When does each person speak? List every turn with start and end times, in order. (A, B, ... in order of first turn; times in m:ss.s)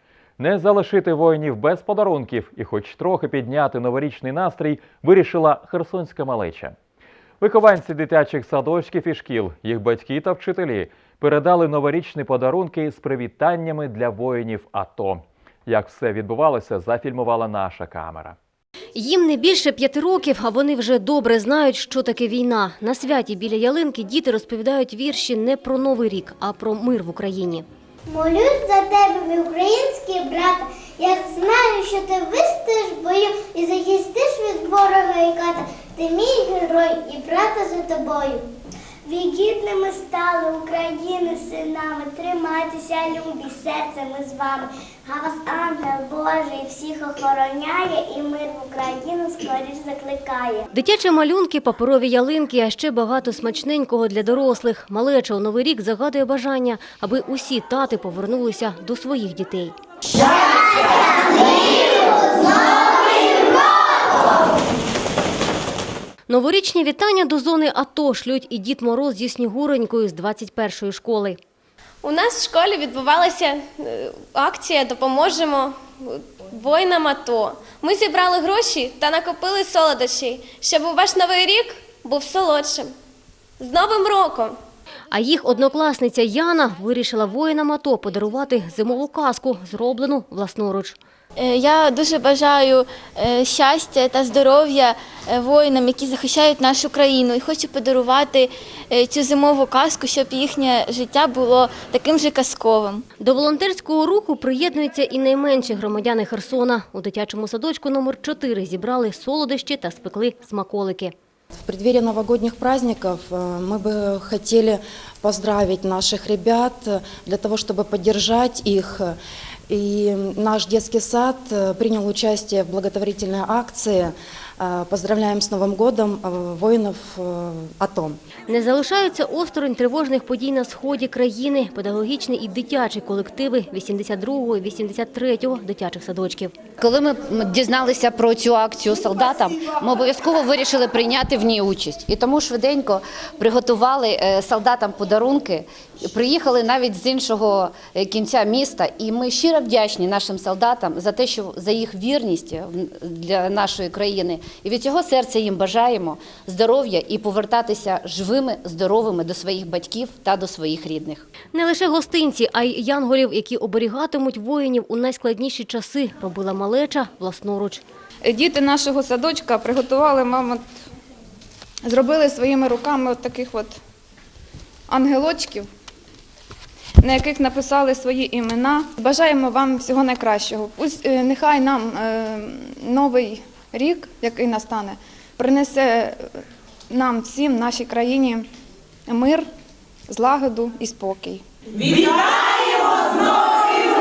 0:00.4-0:06.7 A
0:07.4-0:18.4 A
0:18.9-0:27.6 B
0:28.1-0:38.5 C
0:39.0-0:50.6 C
0:50.7-0:59.7 B
1:00.1-1:04.4 C
1:06.3-1:11.4 B
1:12.0-1:22.9 D
1:23.6-1:24.6 D
1:25.1-1:31.0 B
1:31.4-1:43.0 E
1:43.2-1:51.1 B
1:51.6-1:59.1 F
1:59.7-2:08.2 F
2:08.5-2:16.5 B
2:16.8-2:41.3 G
2:41.5-2:47.8 B
2:48.2-2:50.6 H
2:51.8-2:53.8 H
2:54.9-2:55.7 H
2:57.0-3:06.2 H
3:06.9-3:08.4 H
3:09.1-3:09.4 H
3:10.1-3:11.4 H